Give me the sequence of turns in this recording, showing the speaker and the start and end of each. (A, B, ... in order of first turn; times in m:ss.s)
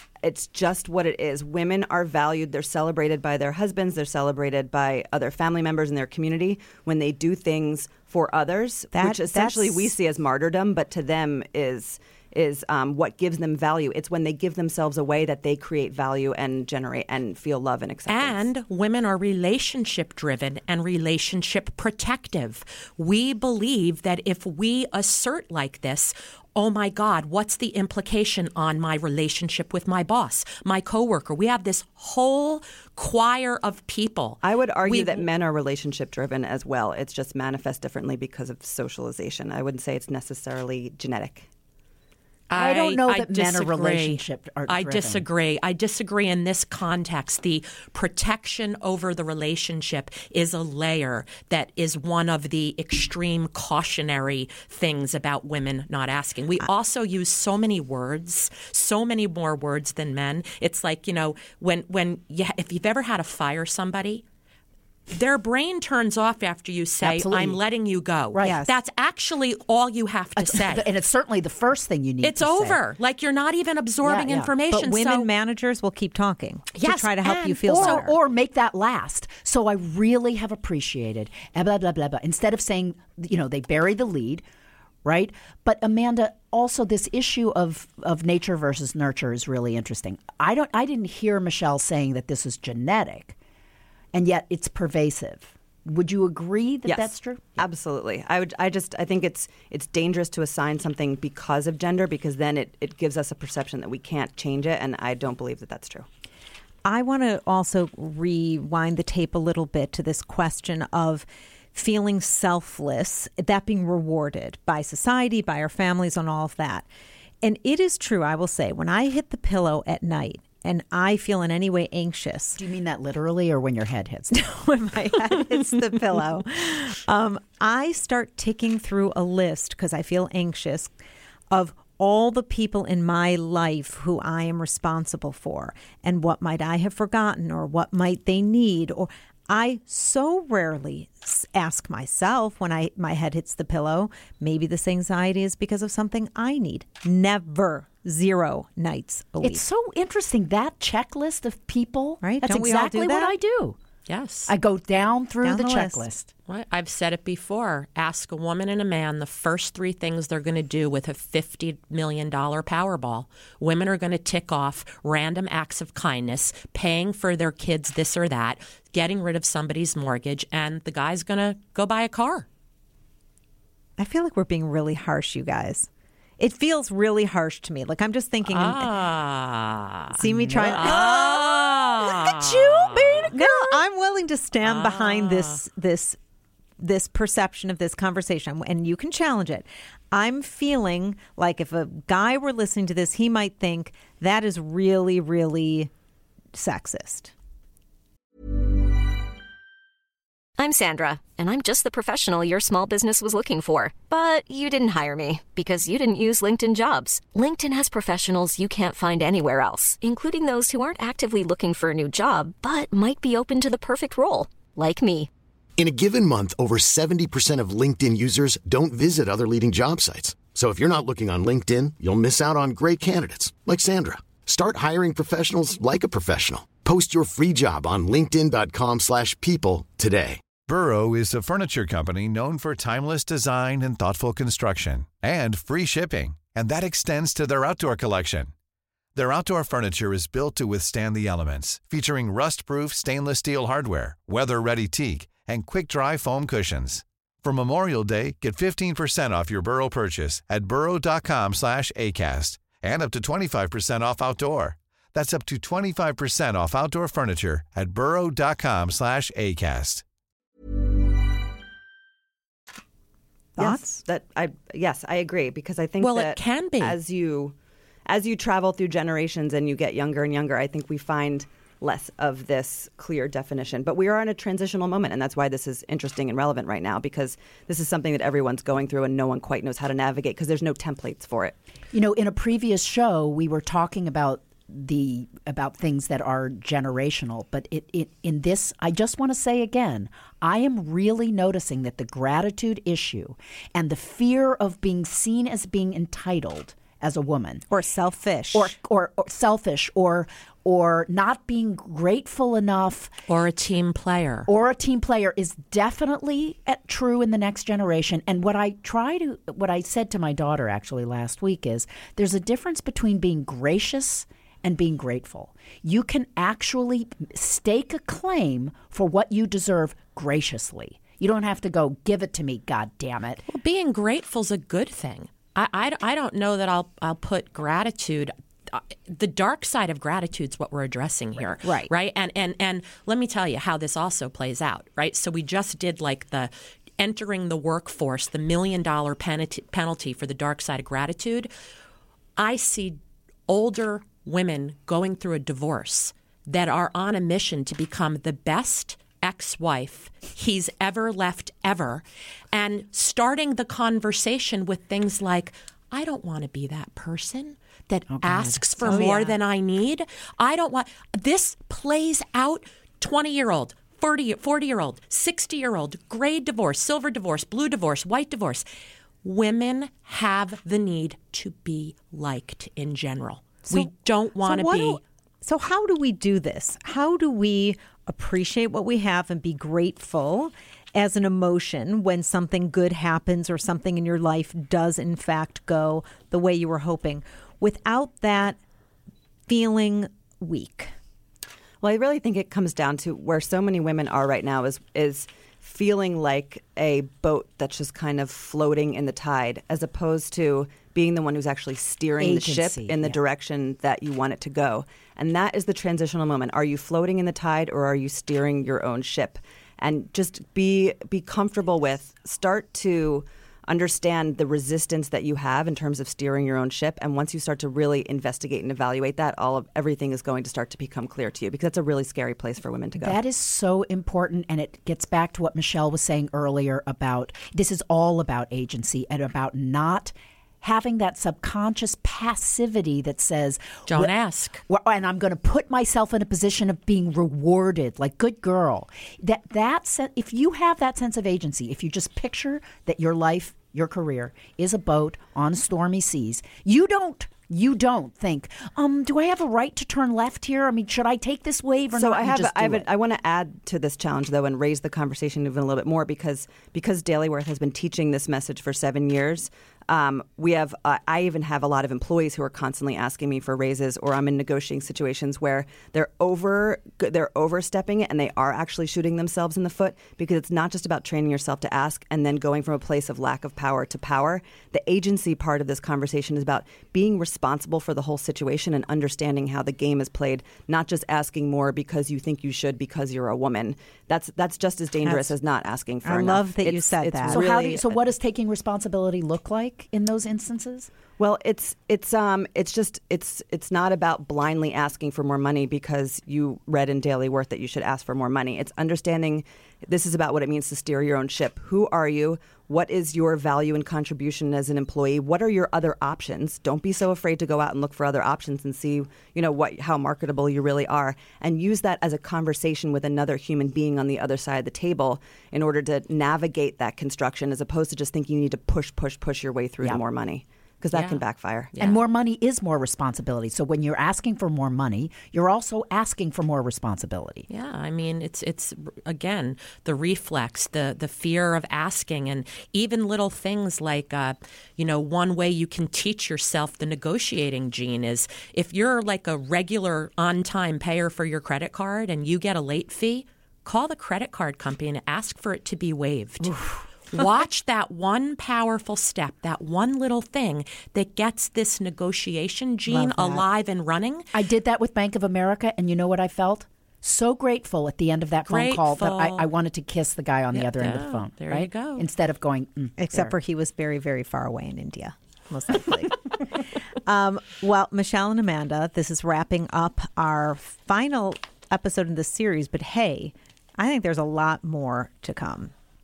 0:00.2-0:18.4 A
0:08.9-0:09.9 B
0:18.1-0:35.3 C
0:34.4-0:41.5 A
0:42.5-1:04.2 C
0:42.5-0:45.2 D
1:05.1-1:10.9 C
1:07.0-1:07.6 D
1:08.4-1:08.7 B
1:10.4-1:12.8 D
1:12.2-1:15.3 C
1:14.0-1:14.5 D
1:14.7-1:18.1 B
1:16.8-1:18.0 C
1:17.3-1:24.4 D
1:25.0-1:33.4 D
1:34.1-1:37.6 D
1:36.8-1:46.0 A
1:46.8-1:56.8 B
1:57.4-2:02.6 B
2:02.6-2:04.4 D
2:04.3-2:10.9 B
2:11.5-2:29.6 B
2:29.4-2:33.8 D
2:32.2-2:33.3 B
2:34.1-2:34.5 C
2:34.5-2:36.3 D
2:35.4-2:36.0 B
2:36.5-2:52.4 C
2:54.0-2:58.9 B
2:58.5-3:03.7 C
3:00.1-3:02.3 B
3:00.6-3:01.1 D
3:02.4-3:03.3 D
3:03.3-3:06.2 B
3:04.6-3:05.6 C
3:06.8-3:15.9 B
3:16.5-3:17.3 B
3:20.6-3:35.3 E
3:35.8-3:50.4 F
3:50.6-3:58.5 G
3:59.1-4:20.0 G
4:23.6-4:24.0 B
4:23.6-4:27.5 A
4:26.0-4:27.0 C
4:28.1-4:41.6 A
4:41.9-4:57.6 D
4:57.7-4:58.7 B
4:58.5-5:03.1 D
5:03.3-5:04.5 C
5:04.5-5:23.4 D
5:23.5-5:41.5 C
5:31.6-5:31.9 B
5:42.4-5:57.6 C
5:57.9-5:59.1 D
5:58.2-6:08.6 C
5:58.8-5:59.3 B
6:09.2-6:15.0 C
6:13.6-6:28.6 B
6:29.5-6:30.9 B
6:31.8-7:03.2 A
6:42.2-6:43.2 D
7:03.0-7:14.1 D
7:13.9-7:14.6 C
7:14.7-7:32.9 D
7:31.9-8:08.0 A
8:05.0-8:05.3 B
8:06.0-8:07.4 B
8:07.3-8:10.9 D
8:11.2-8:41.7 A
8:40.9-8:42.0 C
8:41.8-8:47.5 D
8:47.5-9:06.5 C
9:07.1-9:14.3 C
9:12.9-9:13.4 B
9:14.3-9:23.4 D
9:18.5-9:19.5 C
9:20.5-9:22.1 C
9:23.0-9:35.7 B